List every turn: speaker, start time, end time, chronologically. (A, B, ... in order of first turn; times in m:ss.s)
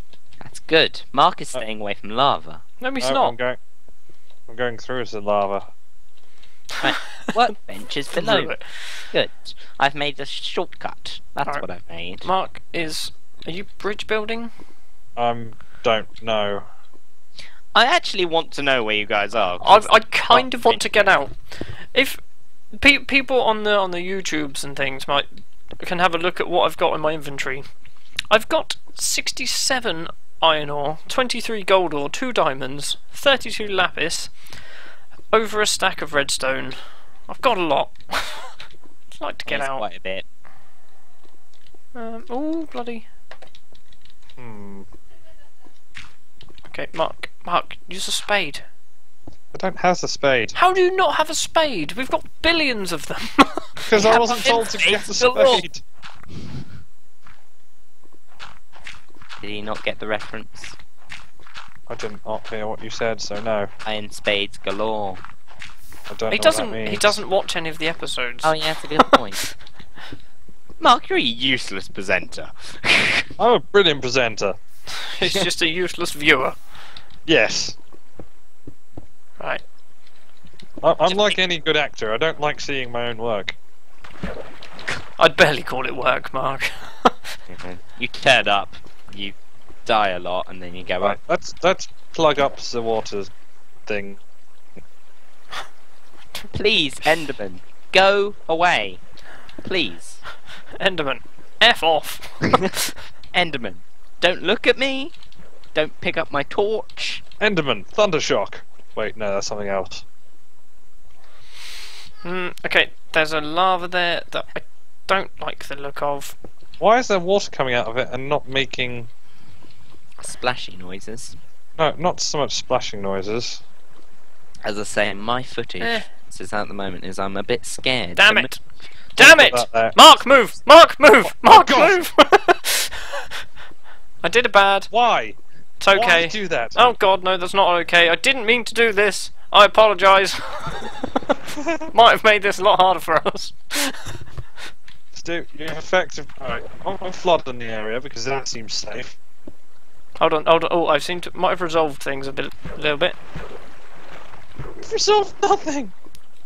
0:00.4-0:02.6 A
0:02.8-0:03.4 B
0:03.0-0:03.6 C
0:04.5-0:05.7 C
0:06.8-0:08.5 A
0:08.1-0:08.8 B
0:09.1-0:12.3 A
0:12.2-0:14.5 B
0:15.2-0:16.7 C
0:17.7-0:21.1 A
0:19.6-0:21.4 B
0:21.9-0:22.2 B
0:22.7-0:25.3 B
0:25.8-0:27.6 B
0:28.3-0:34.3 B
0:35.3-0:36.8 B
0:37.3-0:38.5 B
0:39.1-0:39.8 B
0:39.5-0:40.2 A
0:41.9-0:43.0 B
0:44.4-0:44.9 C
0:46.7-0:48.6 B
0:49.5-0:50.6 C
0:50.5-0:54.8 B
0:53.8-0:55.8 C
0:54.0-0:55.6 A
0:59.4-1:00.8 A
1:01.9-1:03.7 C
1:03.8-1:05.2 A
1:06.1-1:07.2 C
1:06.3-1:08.6 B
1:08.4-1:09.4 A
1:10.8-1:13.3 A
1:13.4-1:14.6 C
1:15.0-1:16.6 B
1:17.2-1:17.8 C
1:20.8-1:23.6 C
1:21.0-1:21.4 B
1:25.2-1:27.2 B
1:27.5-1:29.3 A
1:29.8-1:31.2 A
1:31.0-1:33.3 C
1:33.8-1:34.2 C
1:36.5-1:39.0 A
1:39.6-1:40.2 A
1:40.8-1:42.8 B
1:43.3-1:45.1 A
1:45.7-1:47.2 A
1:47.4-1:50.0 C
1:52.2-1:56.4 B
1:56.8-1:59.1 C
2:00.2-2:01.4 A
2:01.8-2:03.6 C
2:04.6-2:08.5 A
2:08.2-2:08.6 B
2:09.2-2:10.0 C
2:09.2-2:13.2 B
2:11.2-2:12.0 C
2:14.2-2:14.9 B
2:14.9-2:15.4 C
2:15.8-2:21.3 B
2:15.9-2:16.9 C
2:21.6-2:21.9 C
2:21.9-2:24.1 B
2:25.1-2:29.2 C
2:30.2-2:33.2 B
2:34.8-2:35.9 C